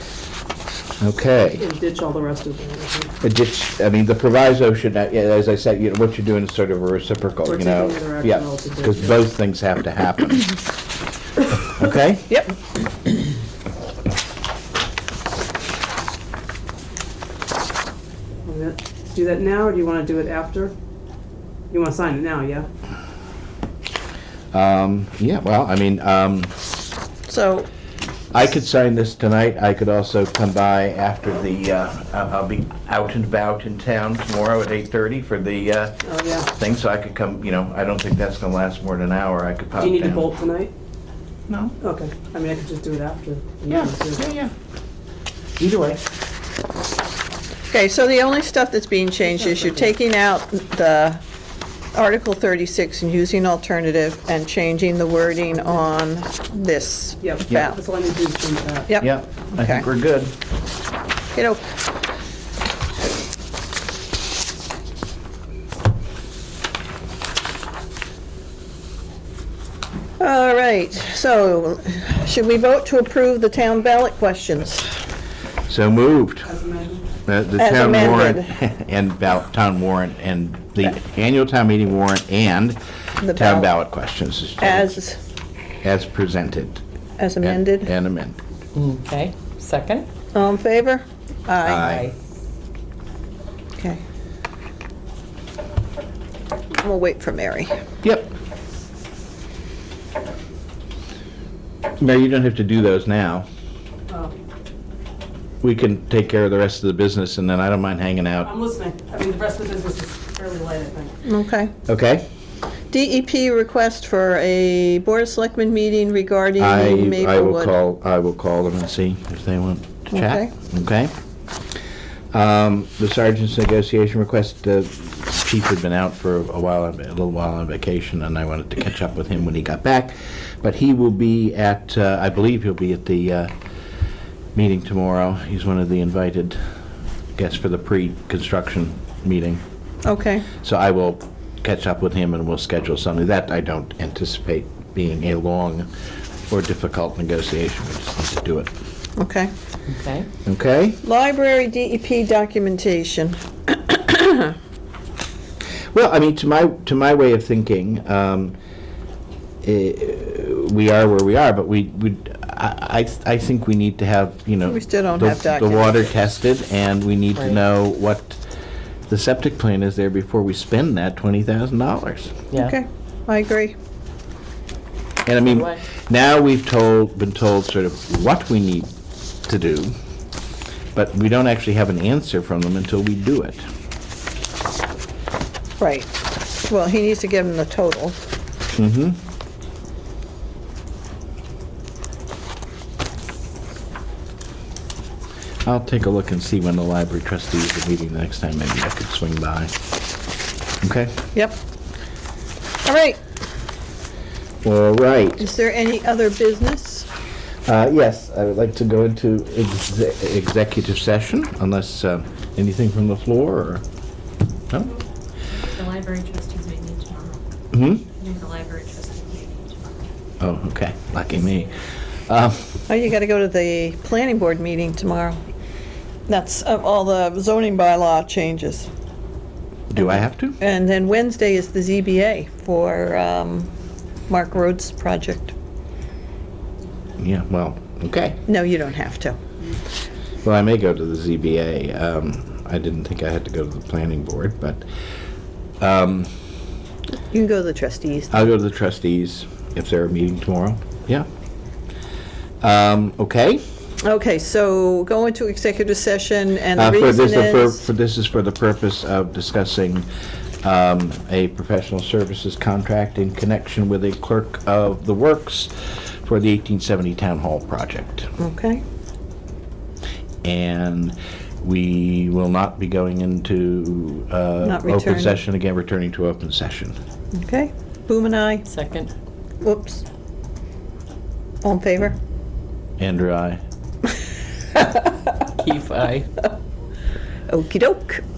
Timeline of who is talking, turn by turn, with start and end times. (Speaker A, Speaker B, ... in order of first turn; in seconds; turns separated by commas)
Speaker A: 1.0-1.6, Speaker B: 1.6-3.1, Speaker A: 3.2-10.6, Speaker B: 7.5-9.2, Speaker A: 11.6-12.4, Speaker B: 18.5-20.7, Speaker B: 21.7-22.7, Speaker A: 24.5-26.6, Speaker C: 27.3-27.7, Speaker A: 28.3-40.3, Speaker B: 36.0-36.5, Speaker B: 39.8-40.7, Speaker A: 41.5-41.8, Speaker B: 41.8-44.2, Speaker A: 43.7-44.5, Speaker A: 45.6-46.0, Speaker C: 47.7-51.2, Speaker B: 49.2-49.9, Speaker C: 51.9-57.8, Speaker B: 57.2-58.9, Speaker C: 58.9-59.9, Speaker A: 59.0-60.4, Speaker C: 61.4-61.6, Speaker C: 70.2-74.9, Speaker A: 75.7-76.5, Speaker B: 76.5-77.1, Speaker A: 77.2-82.8, Speaker C: 77.6-78.5, Speaker C: 83.2-83.7, Speaker A: 83.3-85.0, Speaker C: 84.6-85.2, Speaker A: 85.8-86.8, Speaker C: 87.2-87.9, Speaker A: 87.4-88.4, Speaker D: 88.8-90.1, Speaker C: 90.3-92.0, Speaker A: 91.6-92.1, Speaker D: 91.8-92.2, Speaker C: 96.8-97.7, Speaker A: 98.0-98.3, Speaker A: 102.0-103.5, Speaker B: 104.1-104.3, Speaker A: 105.6-108.5, Speaker B: 108.5-111.1, Speaker C: 111.2-111.7, Speaker A: 111.9-112.3, Speaker C: 112.9-117.8, Speaker A: 116.6-121.1, Speaker C: 120.1-120.5, Speaker A: 122.3-133.5, Speaker A: 134.6-136.6, Speaker A: 137.4-139.6, Speaker C: 140.0-140.5, Speaker A: 140.6-145.9, Speaker A: 146.5-148.7, Speaker C: 149.2-149.5, Speaker D: 149.9-150.3, Speaker A: 150.4-151.0, Speaker C: 151.0-154.6, Speaker A: 155.9-158.6, Speaker A: 159.6-168.4, Speaker C: 164.7-166.2, Speaker A: 169.1-172.4, Speaker C: 172.5-173.7, Speaker A: 175.3-178.9, Speaker D: 175.4-175.8, Speaker A: 179.5-179.9, Speaker A: 180.9-183.7, Speaker C: 185.8-186.1, Speaker C: 186.7-188.2, Speaker A: 188.8-189.2, Speaker A: 195.7-199.7, Speaker A: 200.8-201.2, Speaker C: 201.3-201.6, Speaker C: 202.8-203.2, Speaker A: 204.6-205.5, Speaker C: 205.4-207.1, Speaker A: 207.7-213.8, Speaker A: 214.7-215.0, Speaker E: 215.4-217.4, Speaker A: 217.7-218.1, Speaker E: 218.1-220.1, Speaker A: 220.4-222.8, Speaker E: 221.3-221.7, Speaker C: 222.9-225.4, Speaker C: 226.3-228.9, Speaker A: 229.9-230.6, Speaker C: 230.0-233.7, Speaker C: 234.3-235.5, Speaker A: 237.2-238.4, Speaker C: 238.5-239.4, Speaker A: 240.4-244.8, Speaker A: 245.8-246.3, Speaker C: 247.3-248.5, Speaker A: 248.3-251.3, Speaker A: 252.6-253.6, Speaker C: 254.0-257.9, Speaker A: 256.8-260.1, Speaker A: 260.6-268.4, Speaker C: 268.4-268.8, Speaker A: 270.4-277.0, Speaker C: 274.6-275.4, Speaker C: 277.3-278.7, Speaker D: 278.7-279.1, Speaker C: 279.6-280.0, Speaker C: 281.6-282.2, Speaker A: 283.0-283.6, Speaker D: 285.6-286.3, Speaker C: 287.5-288.2